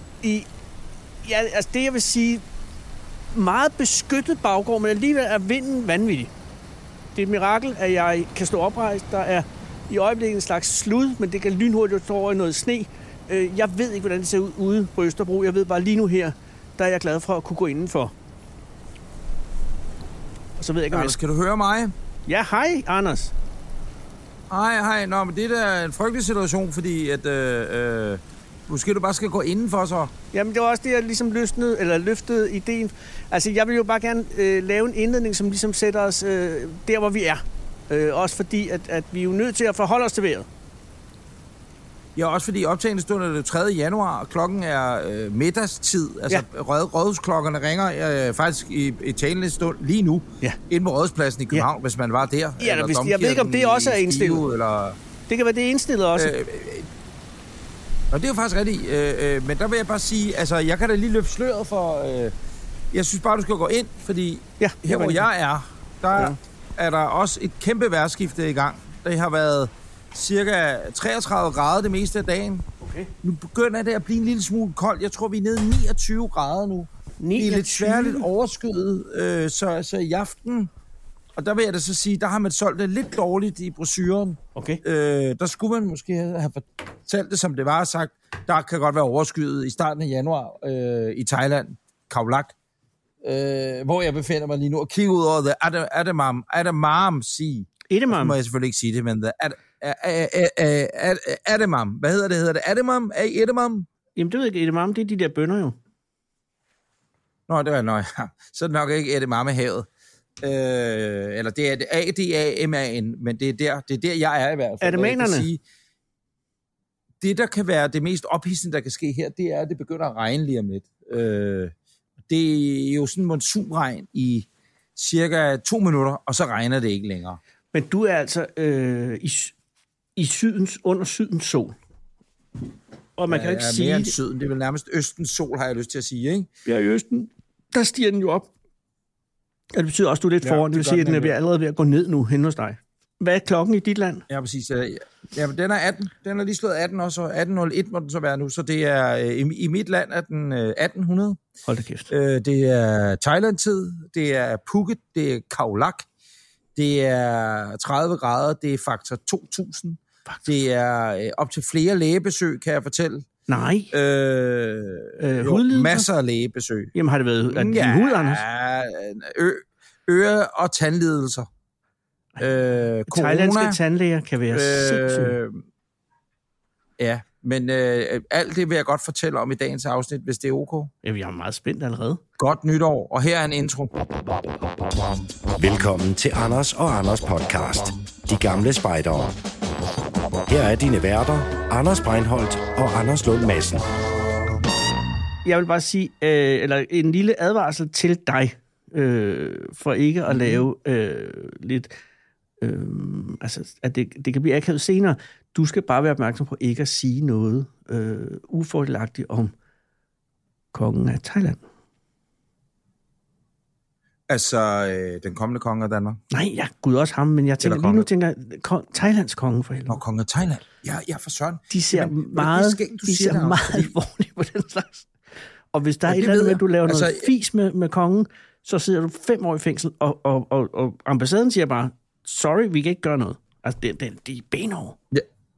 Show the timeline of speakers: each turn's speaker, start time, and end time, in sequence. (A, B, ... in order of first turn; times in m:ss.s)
0:00.2-0:00.5 A
0:01.2-0:02.4 A
0:03.3-0:06.3 A
0:07.2-0:18.1 A
0:20.6-0:21.2 A
0:20.9-0:21.9 B
0:22.3-0:23.3 A
0:24.5-0:30.1 B
0:30.3-0:40.5 A
0:42.2-0:55.0 B
0:52.6-0:54.4 A
0:55.3-0:56.4 A
0:56.2-0:56.9 B
0:58.1-1:02.3 B
1:02.9-1:12.7 B
1:04.6-1:05.2 A
1:12.8-1:13.1 A
1:13.2-1:20.7 B
1:17.2-1:18.3 A
1:21.4-1:32.5 B
1:24.6-1:24.8 A
1:33.2-1:43.9 B
1:37.9-1:38.4 A
1:44.2-1:45.8 A
1:47.5-1:49.9 B
1:50.4-1:55.6 B
1:54.8-1:55.5 A
1:57.2-2:01.7 B
2:02.3-2:07.4 B
2:07.7-2:09.6 A
2:10.2-2:11.8 A
2:13.2-2:14.1 A
2:13.3-2:16.5 B
2:16.7-2:18.5 A
2:19.7-2:24.2 A
2:20.4-2:21.4 B
2:24.3-2:31.4 B
2:31.7-2:32.1 A
2:32.1-2:36.1 B
2:36.8-2:43.3 B
2:43.5-2:43.9 A
2:43.9-2:46.9 B
2:45.2-2:46.1 A
2:47.0-2:48.4 A
2:47.5-2:51.5 B
2:52.4-2:53.8 B
2:53.1-2:55.4 A
2:54.5-2:55.6 B
2:57.0-3:00.9 B
3:01.0-3:02.2 A
3:02.4-3:03.9 B
3:05.6-3:09.4 C
3:10.5-3:13.9 C
3:15.4-3:22.0 A
3:20.3-3:20.6 B
3:22.6-3:29.5 A
3:30.7-3:31.6 A
3:34.3-3:36.2 B
3:36.3-3:40.0 A
3:37.6-3:38.1 B
3:39.9-3:43.9 B
3:41.7-3:45.1 A
3:45.7-3:55.0 A
3:46.1-3:47.3 B